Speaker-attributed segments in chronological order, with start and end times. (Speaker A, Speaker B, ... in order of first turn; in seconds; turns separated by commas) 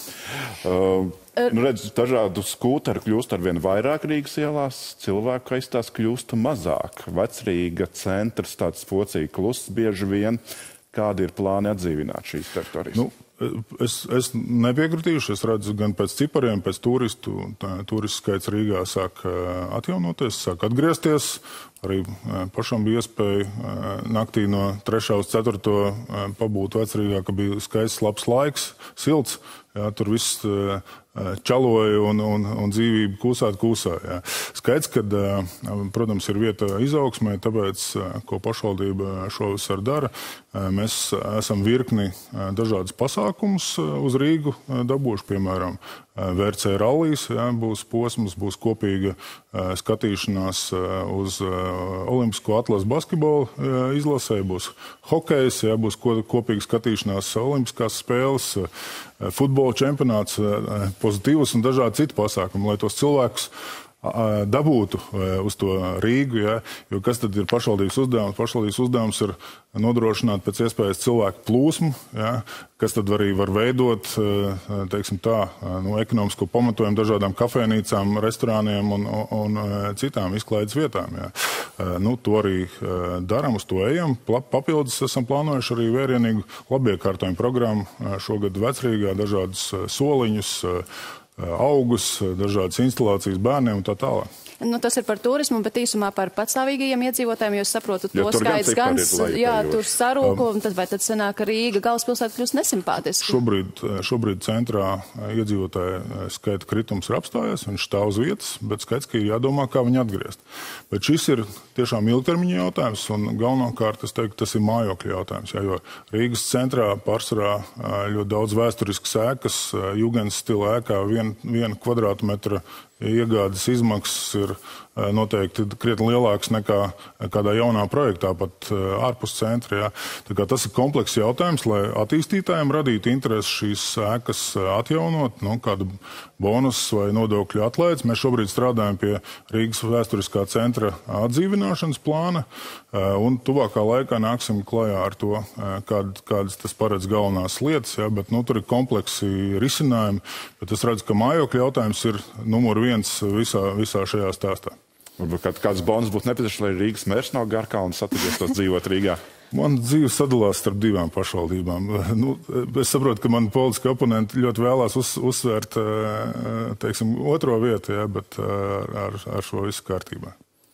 Speaker A: 0.6-13.0, Speaker B: 12.9-58.7, Speaker B: 59.2-90.8, Speaker B: 91.4-94.3, Speaker C: 94.6-103.3, Speaker A: 98.1-99.8, Speaker B: 103.2-154.7, Speaker A: 155.2-159.2, Speaker B: 159.5-170.3